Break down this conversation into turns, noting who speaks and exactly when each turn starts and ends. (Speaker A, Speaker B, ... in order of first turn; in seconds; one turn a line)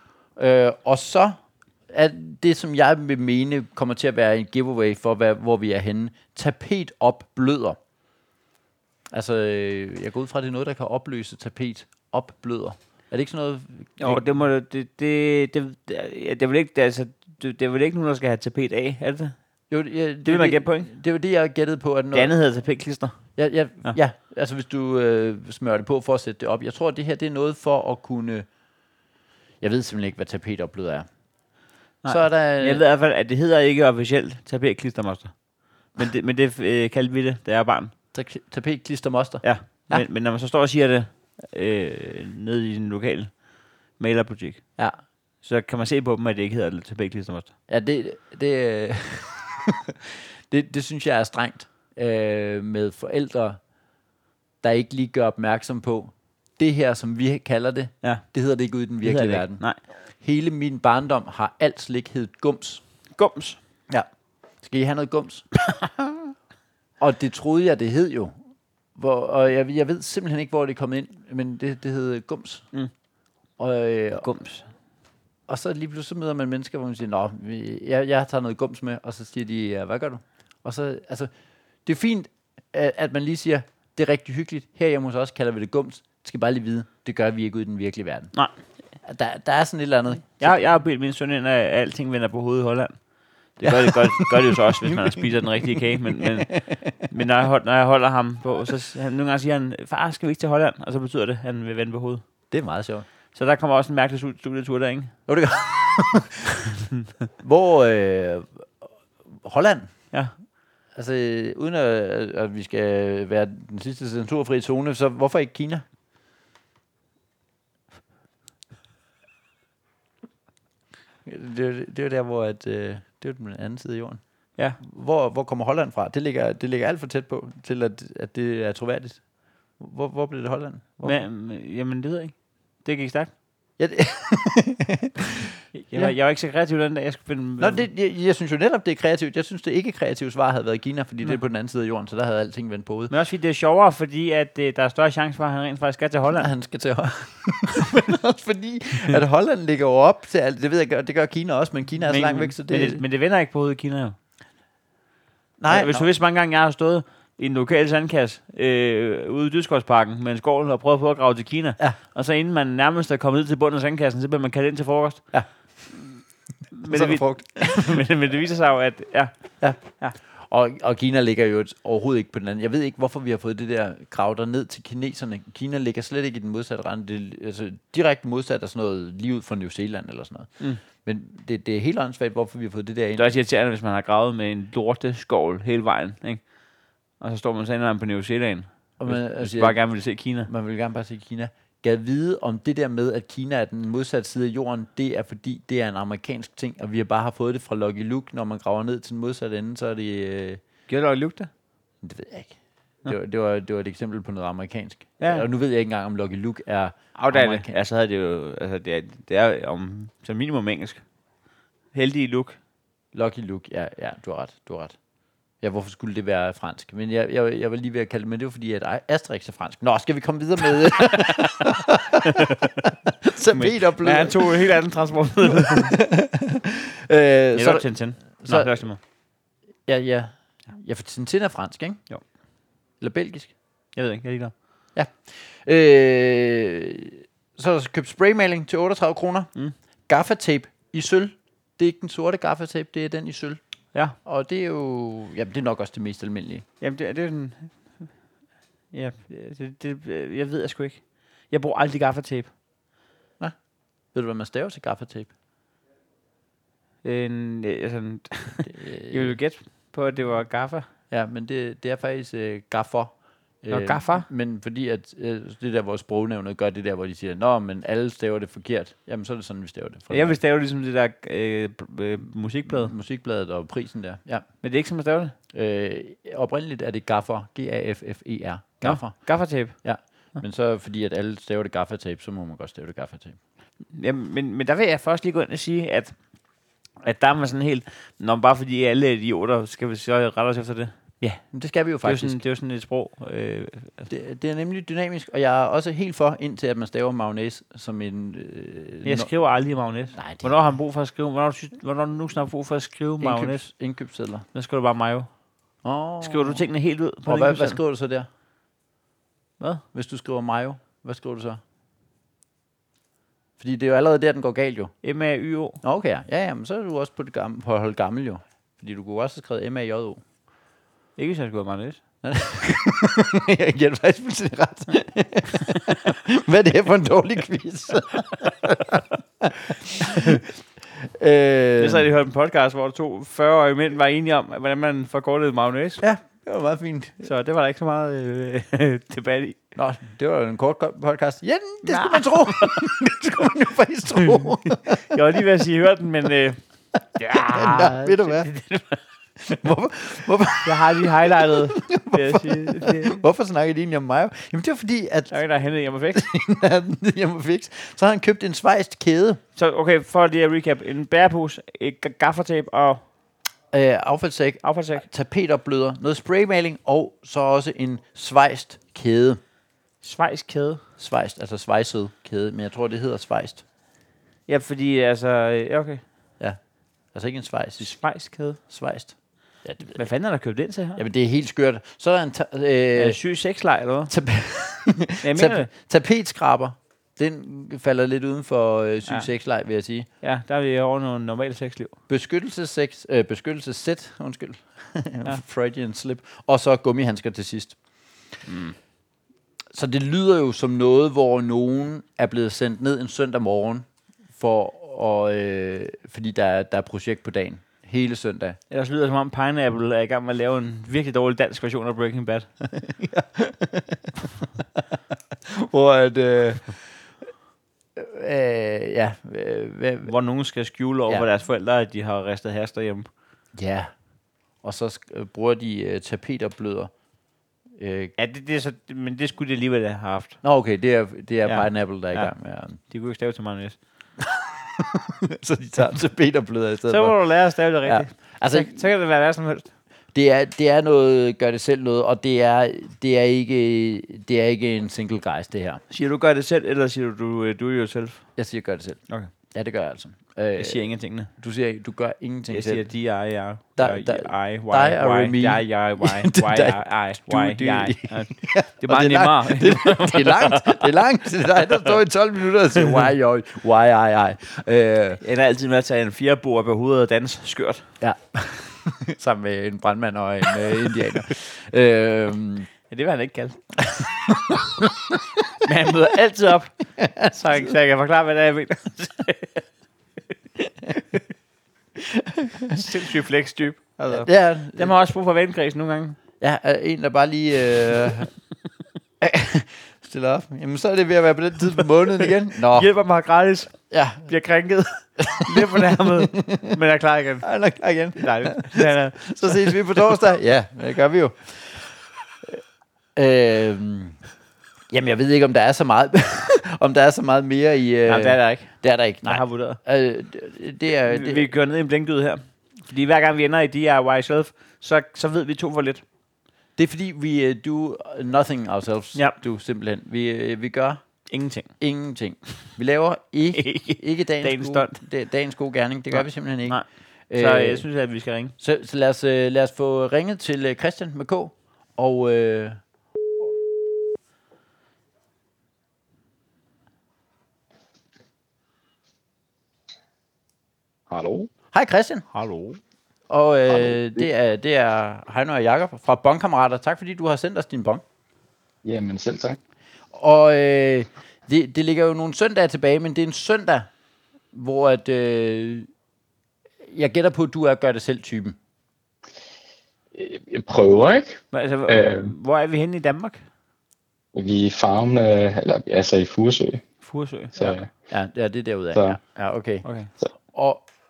Speaker A: 0.4-7.8
Speaker A: 9.1-14.2
Speaker B: 14.0-19.4
Speaker A: 19.7-22.3
Speaker B: 20.2-20.9
Speaker B: 22.1-23.2
Speaker A: 23.4-28.5
Speaker A: 29.6-31.1
Speaker B: 32.0-35.4
Speaker A: 32.0-32.8
Speaker B: 35.9-37.9
Speaker A: 38.1-40.0
Speaker B: 39.4-43.4
Speaker B: 44.0-44.8
Speaker B: 45.4-47.5
Speaker A: 47.7-53.6
Speaker A: 54.6-59.6
Speaker B: 59.0-59.8
Speaker A: 60.2-62.8
Speaker B: 63.1-63.6
Speaker A: 64.6-65.5
Speaker A: 67.0-68.3
Speaker A: 68.9-72.7
Speaker A: 73.6-74.3
Speaker B: 74.2-74.7
Speaker A: 75.5-81.3
Speaker A: 81.8-88.3
Speaker A: 89.0-90.6
Speaker B: 90.4-93.0
Speaker B: 93.6-102.2
Speaker A: 93.7-96.7
Speaker A: 102.5-103.0
Speaker B: 103.3-105.1
Speaker A: 105.3-106.5
Speaker A: 107.4-109.9
Speaker A: 110.9-115.8
Speaker A: 121.2-124.2
Speaker A: 124.8-131.2
Speaker B: 131.0-133.3
Speaker A: 133.8-136.1
Speaker B: 135.7-137.9
Speaker A: 137.6-143.1
Speaker B: 143.1-146.5
Speaker A: 146.3-153.0
Speaker B: 152.1-154.2
Speaker A: 155.6-156.1
Speaker B: 155.7-165.2
Speaker B: 166.7-170.2
Speaker A: 166.9-168.0
Speaker A: 170.5-183.3
Speaker B: 183.2-186.4
Speaker B: 187.2-190.5
Speaker A: 189.0-200.6
Speaker B: 200.9-201.5
Speaker A: 202.0-207.7
Speaker B: 205.2-205.4
Speaker B: 207.2-211.0
Speaker B: 211.9-212.6
Speaker A: 213.1-214.9
Speaker A: 215.6-224.8
Speaker B: 221.1-222.9
Speaker B: 223.5-226.0
Speaker A: 225.5-228.8
Speaker B: 227.6-229.0
Speaker A: 229.9-232.0
Speaker A: 233.0-233.5
Speaker B: 233.9-234.5
Speaker A: 234.9-239.5
Speaker A: 240.1-243.6
Speaker A: 244.2-246.6
Speaker B: 246.8-248.1
Speaker B: 248.9-252.5
Speaker A: 254.1-255.3
Speaker B: 257.0-260.9
Speaker A: 258.6-259.4
Speaker A: 261.1-270.4
Speaker B: 263.7-264.3
Speaker B: 270.1-272.9
Speaker A: 272.6-274.5
Speaker B: 274.6-275.3
Speaker A: 275.5-283.4
Speaker B: 278.8-279.8
Speaker B: 283.9-286.1
Speaker B: 287.0-291.3
Speaker A: 291.2-292.4
Speaker B: 292.0-294.1
Speaker A: 294.1-299.3
Speaker B: 299.0-303.7
Speaker A: 300.1-300.5
Speaker A: 303.2-304.4
Speaker B: 304.5-305.3
Speaker A: 305.8-306.6
Speaker B: 306.2-307.8
Speaker A: 307.2-308.3
Speaker A: 309.9-311.6
Speaker A: 313.6-314.9
Speaker B: 315.0-315.8
Speaker A: 315.8-320.2
Speaker B: 321.1-322.0
Speaker A: 322.2-330.4
Speaker B: 330.1-330.4
Speaker A: 331.0-332.1
Speaker B: 331.8-336.0
Speaker A: 336.0-337.2
Speaker B: 337.2-339.6
Speaker A: 339.7-345.2
Speaker B: 341.8-342.7
Speaker B: 344.9-346.6
Speaker B: 347.2-349.0
Speaker A: 347.3-348.5
Speaker A: 349.4-355.4
Speaker B: 350.6-353.2
Speaker B: 355.3-356.2
Speaker A: 356.1-359.4
Speaker B: 359.6-363.0
Speaker A: 363.7-369.4
Speaker B: 364.6-365.1
Speaker B: 370.0-370.8
Speaker A: 371.0-373.6
Speaker B: 374.5-376.0
Speaker A: 377.1-377.9
Speaker B: 377.8-378.6
Speaker A: 378.6-380.0
Speaker B: 379.9-381.0
Speaker A: 380.9-383.2
Speaker B: 382.9-384.1
Speaker A: 384.1-390.1
Speaker B: 385.2-385.7
Speaker B: 390.2-391.9
Speaker A: 392.1-397.8
Speaker B: 398.5-398.7
Speaker A: 399.7-408.6
Speaker B: 408.7-412.5
Speaker A: 412.7-414.8
Speaker A: 415.4-416.8
Speaker A: 417.9-420.1
Speaker B: 420.1-423.1
Speaker A: 423.6-423.9
Speaker A: 424.6-426.9
Speaker A: 427.8-428.1
Speaker B: 428.2-430.4
Speaker A: 430.4-432.8
Speaker B: 431.4-432.3
Speaker B: 432.9-433.8
Speaker A: 434.2-437.1
Speaker B: 436.9-439.7
Speaker A: 437.9-438.9
Speaker A: 440.1-445.8
Speaker B: 445.9-448.3
Speaker A: 448.4-452.9
Speaker B: 450.6-451.3
Speaker B: 452.5-460.9
Speaker A: 453.8-465.2
Speaker B: 465.2-467.9
Speaker A: 468.0-472.7
Speaker B: 472.9-473.6
Speaker A: 473.9-475.2
Speaker B: 475.6-479.6
Speaker A: 477.0-477.7
Speaker B: 480.7-481.1
Speaker A: 481.9-482.8
Speaker B: 482.7-486.2
Speaker A: 484.1-485.0
Speaker A: 486.4-488.3
Speaker A: 489.2-492.9
Speaker B: 492.7-493.7
Speaker A: 493.9-494.3
Speaker B: 494.3-497.5
Speaker A: 495.2-496.8
Speaker A: 497.4-501.9
Speaker B: 498.2-500.0
Speaker A: 503.1-504.2
Speaker A: 504.9-511.5
Speaker B: 508.1-509.8
Speaker B: 511.1-516.0
Speaker A: 516.8-521.0
Speaker B: 521.3-521.7
Speaker A: 521.8-527.9
Speaker B: 523.5-525.0
Speaker B: 526.1-528.5
Speaker A: 528.6-532.8
Speaker C: 541.1-541.5
Speaker A: 541.7-542.3
Speaker B: 542.3-542.8
Speaker A: 543.3-548.0
Speaker C: 543.9-544.2
Speaker C: 548.8-549.6
Speaker A: 550.1-553.9
Speaker A: 554.5-555.9
Speaker A: 556.8-558.6
Speaker C: 560.1-562.3
Speaker B: 561.5-563.4
Speaker C: 564.3-566.8
Speaker B: 567.0-567.6
Speaker C: 567.6-567.9
Speaker A: 567.6-569.9
Speaker B: 569.9-570.1
Speaker A: 570.5-570.8